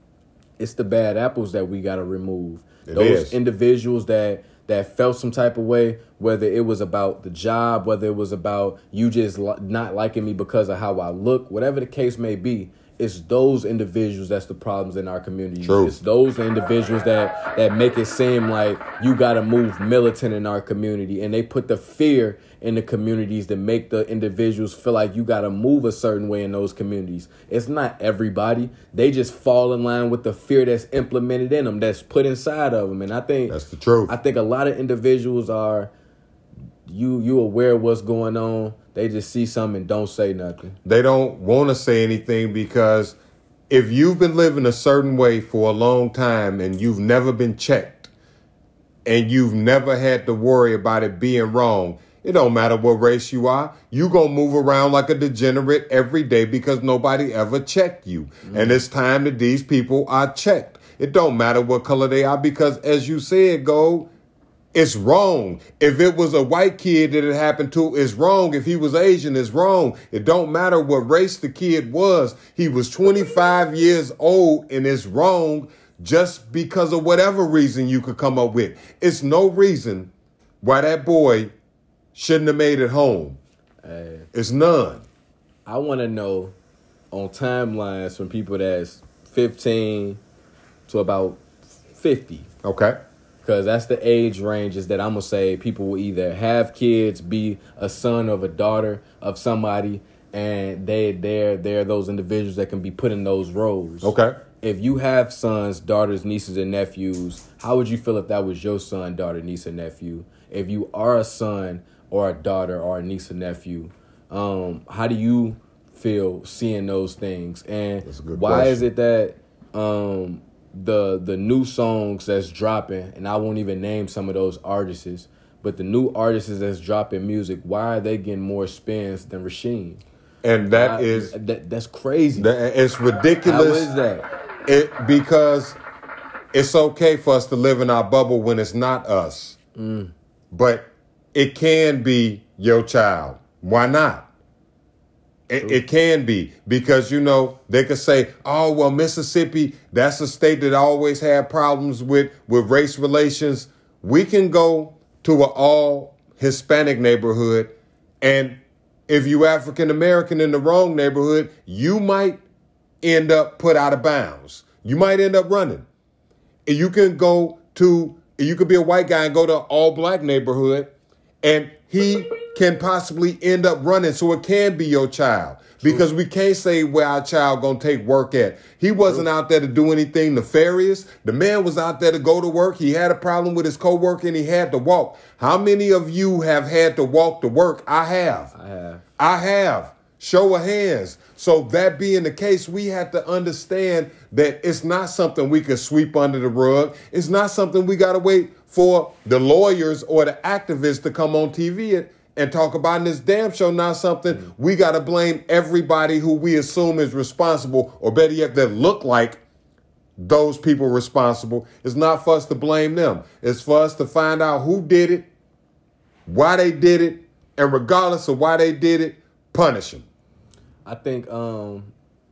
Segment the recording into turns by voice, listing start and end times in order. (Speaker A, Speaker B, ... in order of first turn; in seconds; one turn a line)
Speaker A: 0.6-35.9
Speaker B: 2.9-3.3
Speaker B: 15.6-15.9
Speaker B: 33.5-34.1
Speaker A: 36.9-40.8
Speaker B: 40.8-43.1
Speaker B: 43.7-48.1
Speaker B: 49.0-64.1
Speaker A: 58.4-58.8
Speaker B: 64.7-80.1
Speaker B: 80.6-81.5
Speaker B: 82.1-83.4
Speaker A: 83.8-84.3
Speaker B: 84.3-85.0
Speaker A: 85.7-86.5
Speaker A: 87.1-90.2
Speaker A: 90.9-91.4
Speaker A: 91.9-92.5
Speaker B: 92.6-93.0
Speaker A: 93.4-130.0
Speaker B: 104.0-104.3
Speaker B: 118.0-118.8
Speaker B: 130.4-131.3
Speaker A: 130.7-132.5
Speaker B: 132.3-133.9
Speaker A: 133.4-134.2
Speaker B: 134.7-135.8
Speaker B: 136.5-139.6
Speaker A: 139.8-140.1
Speaker B: 140.5-144.3
Speaker B: 145.5-162.4
Speaker B: 163.0-165.8
Speaker B: 166.7-188.5
Speaker A: 175.8-176.1
Speaker A: 188.5-189.0
Speaker B: 189.2-209.4
Speaker B: 210.2-215.3
Speaker B: 216.3-220.0
Speaker A: 220.8-221.9